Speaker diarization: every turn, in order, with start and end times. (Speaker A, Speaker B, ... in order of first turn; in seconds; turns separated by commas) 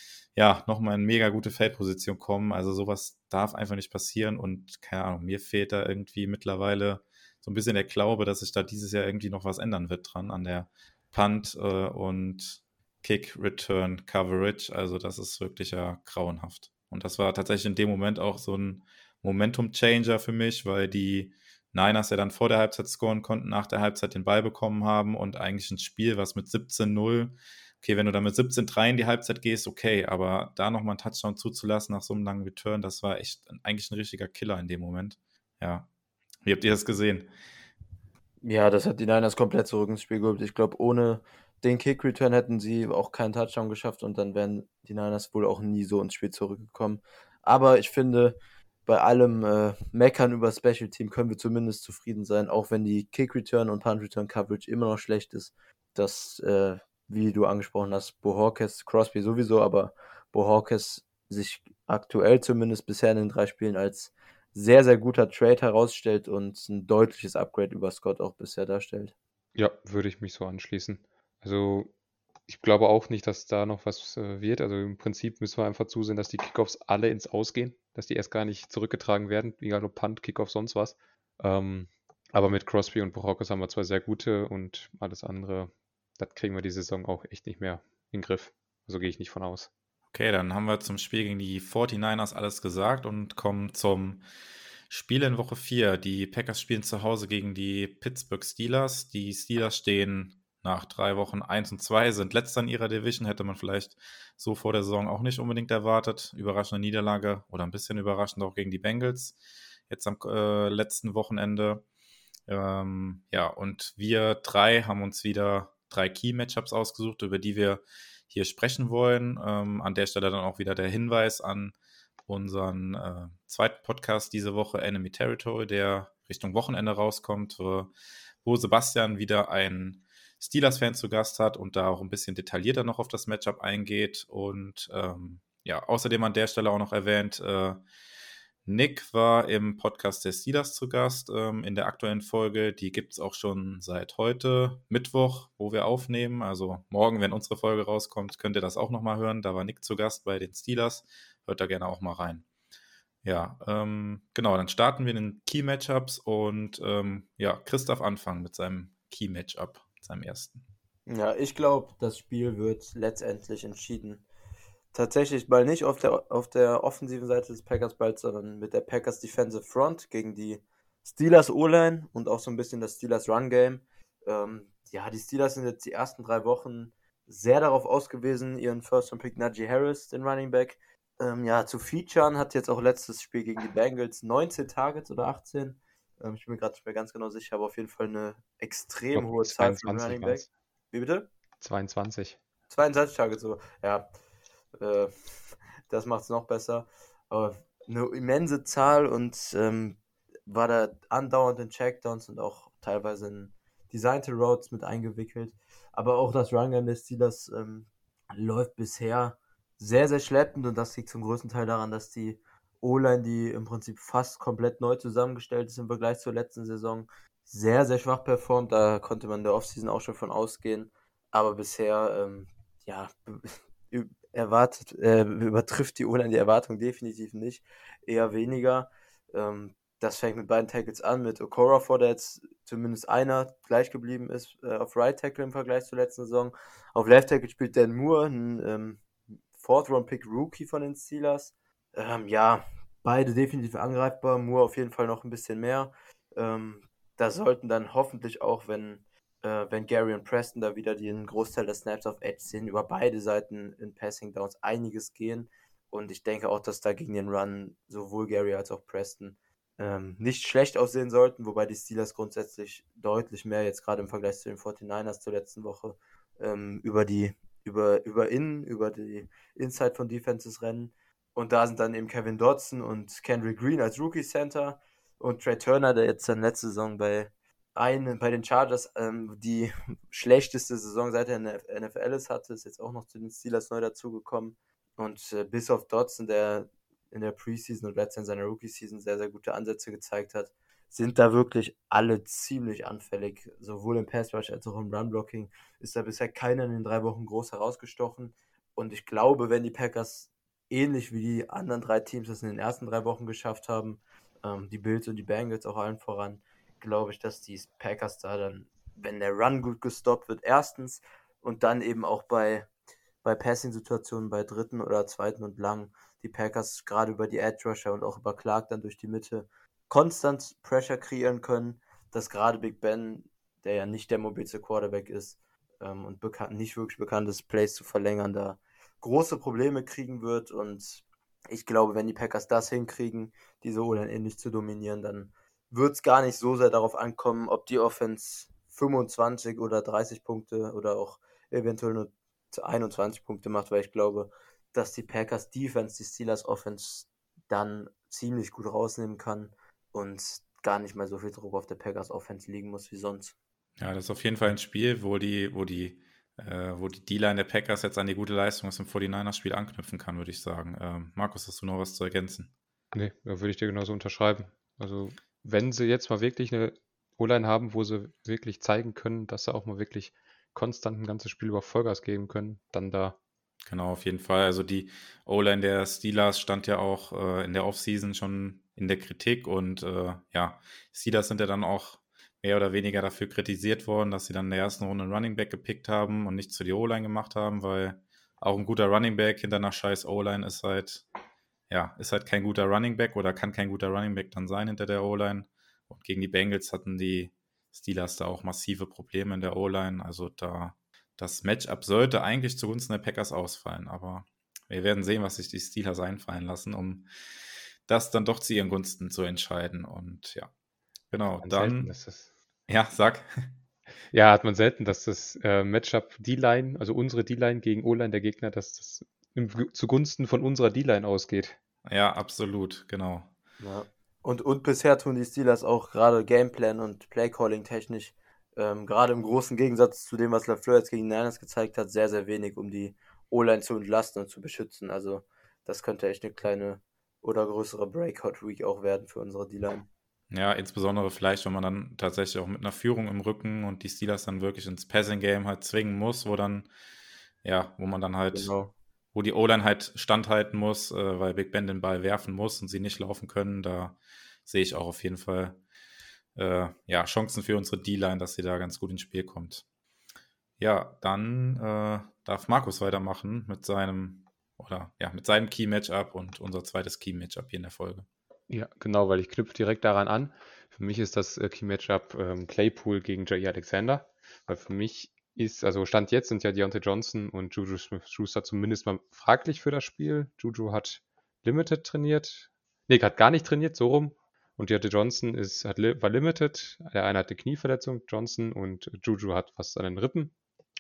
Speaker A: 0.3-35.9, Speaker A: 36.4-37.3, Speaker B: 38.4-69.1, Speaker C: 69.5-71.9, Speaker C: 72.5-89.7, Speaker A: 90.1-94.2, Speaker A: 94.9-109.4, Speaker A: 109.9-111.8, Speaker A: 112.5-121.8, Speaker A: 122.3-127.9, Speaker A: 128.4-137.8, Speaker A: 138.7-152.4, Speaker A: 153.2-160.6, Speaker B: 161.1-164.2, Speaker B: 164.9-191.3, Speaker C: 189.1-190.5, Speaker C: 191.6-192.4, Speaker B: 192.7-194.1, Speaker B: 194.8-195.1, Speaker B: 195.9-312.7, Speaker B: 313.2-353.4, Speaker A: 353.8-362.5, Speaker C: 362.9-373.2, Speaker A: 373.7-391.1, Speaker A: 391.7-407.1, Speaker A: 407.9-410.5, Speaker A: 411.1-411.9, Speaker C: 411.4-412.3, Speaker A: 412.7-413.3, Speaker C: 414.1-421.6, Speaker A: 421.9-423.3, Speaker B: 423.6-439.9, Speaker A: 440.3-446.7, Speaker A: 447.4-448.5, Speaker B: 448.3-448.7, Speaker A: 449.1-455.6, Speaker A: 456.4-459.6, Speaker A: 460.6-468.1, Speaker C: 468.5-490.3